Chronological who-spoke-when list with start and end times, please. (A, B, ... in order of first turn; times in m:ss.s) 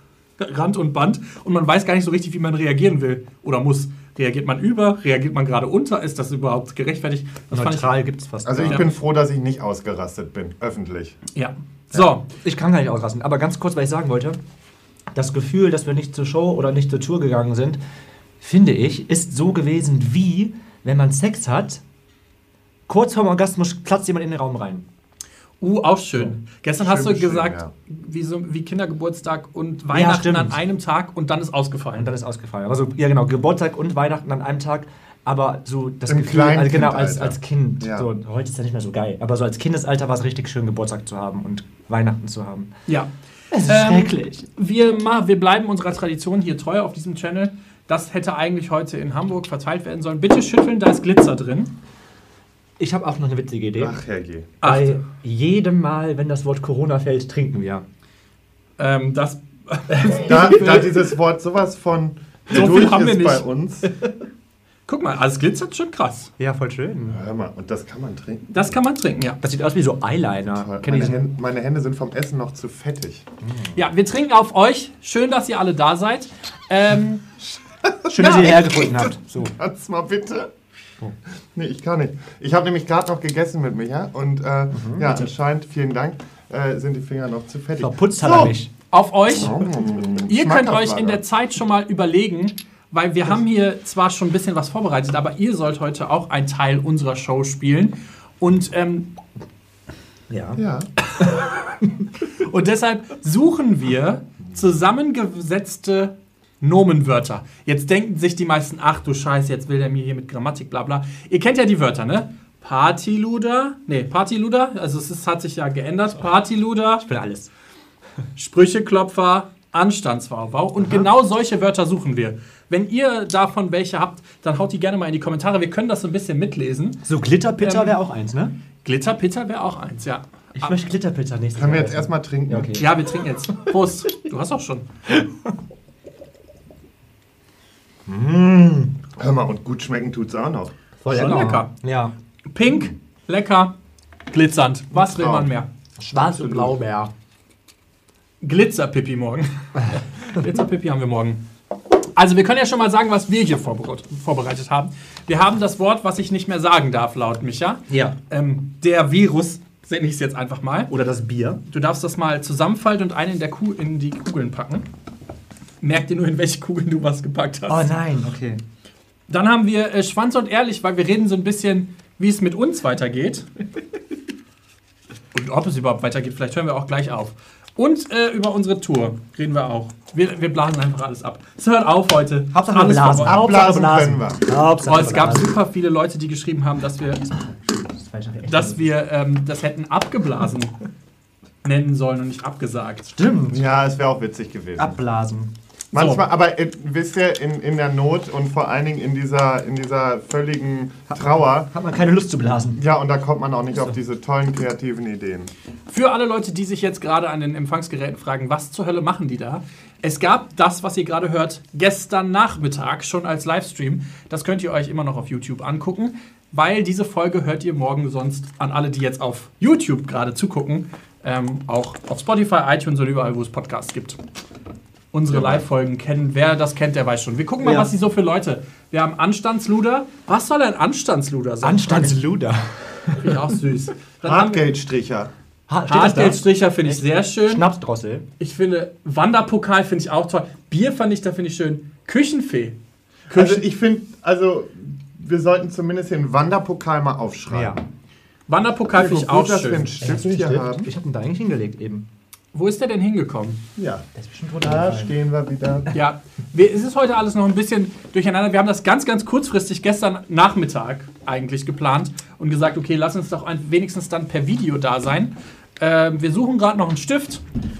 0:00.4-0:08.0 A
0:07.5-0:08.9 B
0:08.4-0:11.2 C
0:11.3-0:12.2 A
0:12.4-0:14.4 B
0:15.1-0:17.8 B
0:18.4-0:21.8 B
0:22.9-0:24.8 B
0:25.6-0:32.1 A
0:26.8-0:27.7 C
0:29.9-0:30.6 B
0:32.0-0:42.7 B
0:36.1-0:38.1 C
0:42.9-0:51.7 A
0:43.5-0:44.5 B
0:52.8-0:54.0 B
0:53.8-0:54.5 C
0:54.6-0:55.0 A
0:54.6-0:57.8 B
0:58.8-1:00.9 A
0:59.9-1:00.8 B
1:00.2-1:03.9 C
1:02.5-1:03.4 A
1:02.5-1:02.9 B
1:04.9-1:06.3 A
1:06.4-1:07.2 B
1:07.1-1:08.4 C
1:08.5-1:09.4 A
1:09.4-1:11.2 B
1:10.5-1:13.2 C
1:13.4-1:13.8 B
1:13.7-1:17.2 A
1:17.8-1:20.5 C
1:18.1-1:19.5 B
1:21.5-1:28.5 C
1:24.7-1:25.3 B
1:27.8-1:28.7 B
1:28.9-1:29.6 A
1:29.3-1:31.2 C
1:30.3-1:39.1 A
1:40.3-1:40.6 B
1:40.6-1:40.9 C
1:41.1-1:41.5 A
1:42.3-1:57.0 A
1:57.0-1:57.5 B
1:58.4-2:07.0 A
2:07.0-2:08.5 B
2:07.6-2:08.0 A
2:08.8-2:10.7 A
2:10.5-2:12.9 B
2:11.6-2:12.8 C
2:12.8-2:14.9 A
2:18.1-2:18.9 B
2:19.2-2:20.7 C
2:21.0-2:22.1 B
2:21.1-2:21.7 A
2:22.5-2:23.7 A
2:24.3-2:26.8 A
2:24.9-2:25.5 C
2:26.0-2:27.1 B
2:28.4-2:31.4 A
2:29.9-2:30.6 B
2:32.1-2:40.9 A
2:37.9-2:38.2 B
2:40.9-2:41.6 B
2:41.6-2:44.9 A
2:45.8-2:47.9 A
2:47.7-2:48.6 B
2:49.3-2:53.4 A
2:55.3-3:03.4 A
3:02.5-3:05.5 B
3:03.2-3:04.4 C
3:04.8-3:07.3 A
3:07.5-3:08.9 B
3:08.4-3:10.8 A
3:11.6-3:13.1 A
3:13.1-3:13.6 B
3:13.5-3:15.0 C
3:14.8-3:15.5 B
3:15.9-3:21.7 C
3:15.9-3:16.2 A
3:21.1-3:22.8 B
3:22.7-3:25.5 C
3:25.9-3:44.2 A
3:45.1-3:52.1 A
3:45.3-3:45.6 C
3:47.6-3:47.9 B
3:51.6-3:53.6 B
3:53.2-3:54.7 A
3:54.2-3:55.3 C
3:55.7-3:58.2 B
3:55.9-3:57.6 A
3:58.4-4:02.8 A
4:03.3-4:03.6 A
4:03.3-4:07.8 C
4:07.5-4:07.8 B
4:08.5-4:09.9 A
4:08.9-4:10.9 C
4:10.0-4:12.1 B
4:12.5-4:13.6 A
4:13.8-4:14.1 C
4:14.1-4:15.2 B
4:14.6-4:15.9 C
4:15.9-4:27.4 A